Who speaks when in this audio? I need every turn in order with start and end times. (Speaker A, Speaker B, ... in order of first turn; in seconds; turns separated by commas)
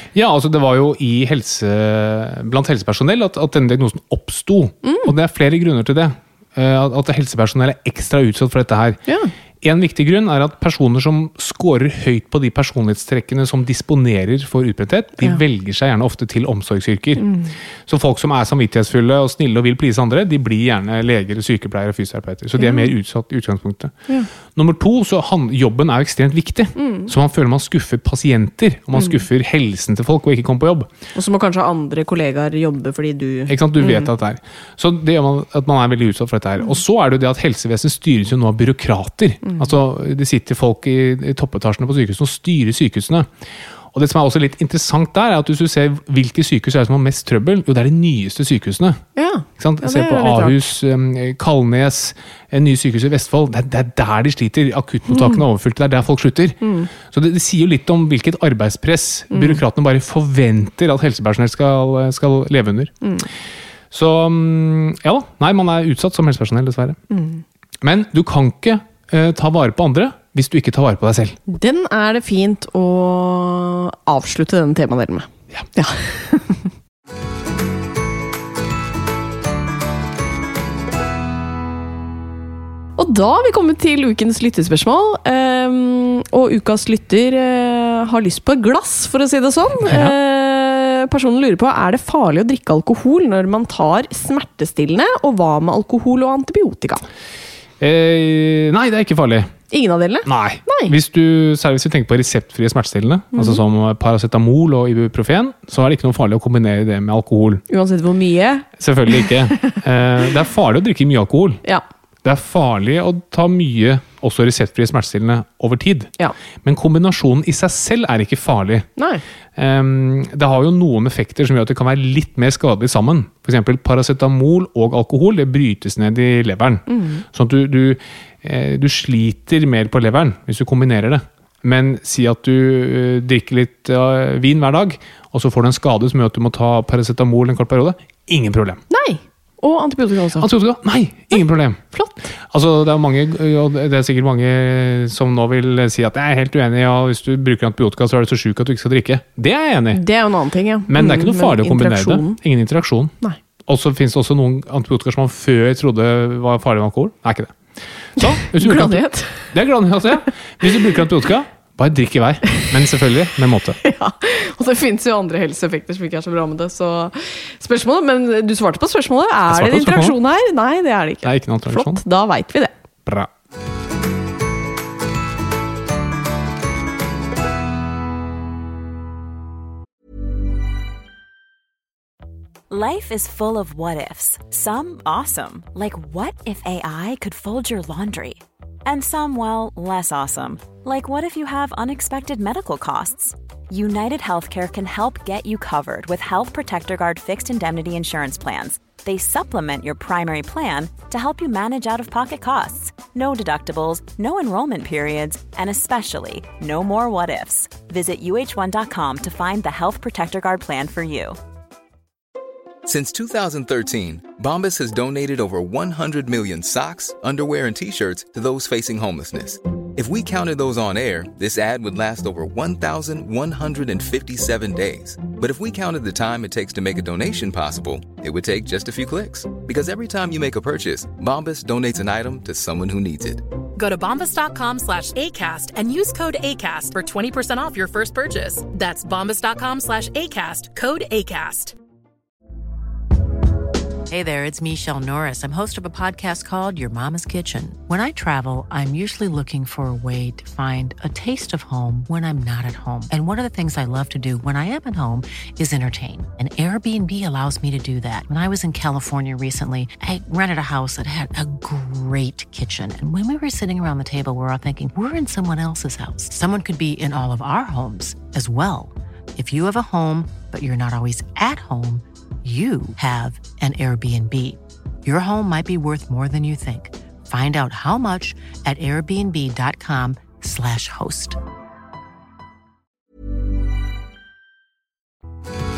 Speaker A: 0.1-9.0, Speaker B: 4.8-5.1, Speaker B: 9.1-9.3, Speaker A: 9.6-17.4, Speaker B: 17.2-17.5, Speaker A: 17.9-30.9, Speaker B: 22.6-22.9, Speaker B: 26.8-27.1, Speaker B: 28.9-29.2, Speaker B: 31.1-34.1, Speaker A: 33.5-43.3, Speaker B: 39.4-39.7, Speaker A: 43.9-62.9, Speaker B: 49.2-50.6, Speaker B: 55.1-55.4, Speaker B: 56.6-56.9, Speaker B: 59.3-59.6, Speaker B: 63.0-63.3, Speaker A: 63.9-67.0, Speaker B: 67.1-67.4, Speaker A: 67.8-71.4, Speaker B: 71.5-76.7, Speaker B: 83.0-97.0, Speaker A: 89.8-90.2, Speaker A: 97.8-99.6, Speaker B: 99.7-100.9, Speaker A: 100.2-107.6, Speaker B: 103.3-103.6, Speaker B: 107.7-108.7, Speaker A: 108.8-111.6, Speaker A: 112.2-118.9, Speaker B: 119.0-119.2, Speaker A: 119.6-138.8, Speaker B: 126.9-127.2, Speaker B: 138.9-140.5, Speaker A: 140.4-150.0, Speaker B: 149.9-152.4, Speaker A: 150.9-153.1, Speaker A: 153.7-163.8, Speaker B: 158.2-159.5, Speaker B: 163.8-172.7, Speaker A: 169.5-170.2, Speaker A: 171.2-172.0, Speaker C: 182.7-211.4, Speaker D: 212.9-233.4, Speaker E: 233.8-241.8, Speaker F: 244.1-281.4